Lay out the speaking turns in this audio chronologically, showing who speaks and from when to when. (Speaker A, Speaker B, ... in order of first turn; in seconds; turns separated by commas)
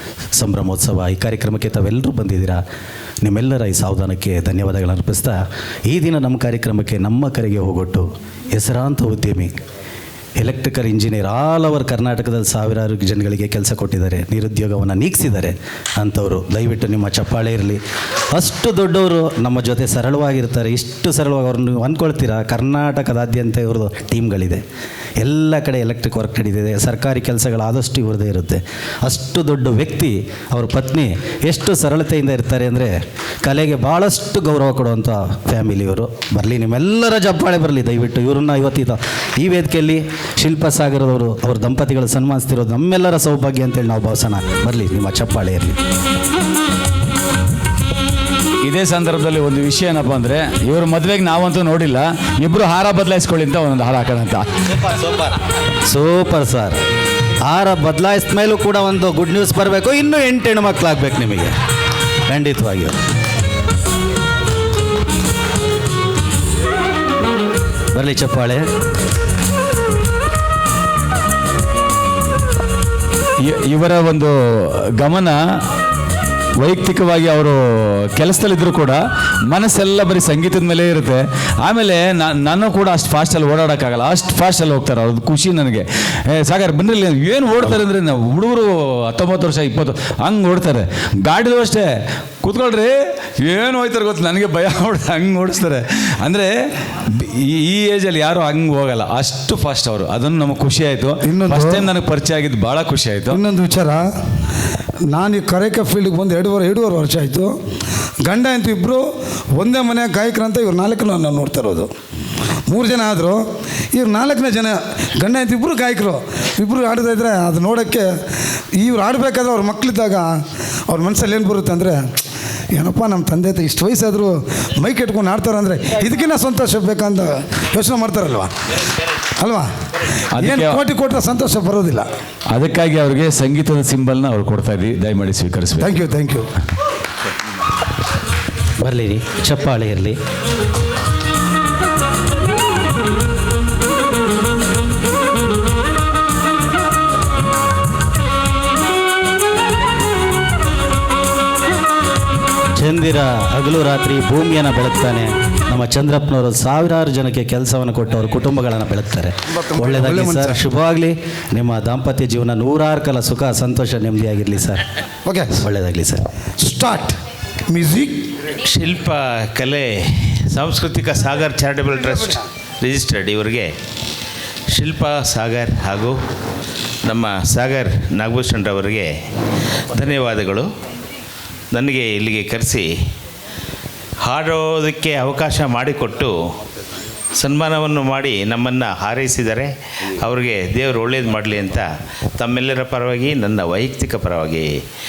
Speaker A: 0.3-2.6, Speaker A: 3.2-9.5, Speaker A: 10.4-17.8, Speaker A: 18.3-24.6, Speaker A: 25.2-45.8, Speaker B: 48.6-54.5, Speaker A: 55.9-56.8, Speaker A: 57.5-61.5, Speaker A: 62.3-63.0, Speaker A: 67.9-68.7, Speaker B: 73.4-75.4, Speaker B: 76.6-96.5, Speaker B: 97.1-103.4, Speaker C: 101.2-101.9, Speaker C: 103.3-104.1, Speaker C: 105.1-107.5, Speaker C: 108.2-111.9, Speaker C: 112.7-118.1, Speaker C: 118.8-122.1, Speaker C: 122.7-128.5, Speaker C: 129.4-129.7, Speaker B: 130.3-130.8, Speaker C: 130.4-132.1, Speaker B: 132.5-135.9, Speaker C: 135.8-136.5, Speaker A: 138.8-140.2, Speaker A: 152.8-164.8, Speaker C: 159.7-160.6, Speaker C: 165.2-165.6, Speaker A: 165.6-166.2, Speaker C: 166.6-167.2, Speaker C: 167.7-168.2, Speaker D: 168.6-173.7, Speaker C: 172.1-172.4, Speaker D: 174.7-176.2, Speaker D: 177.0-179.1, Speaker D: 179.9-180.7, Speaker D: 181.7-182.9, Speaker D: 184.2-186.4, Speaker D: 187.4-194.8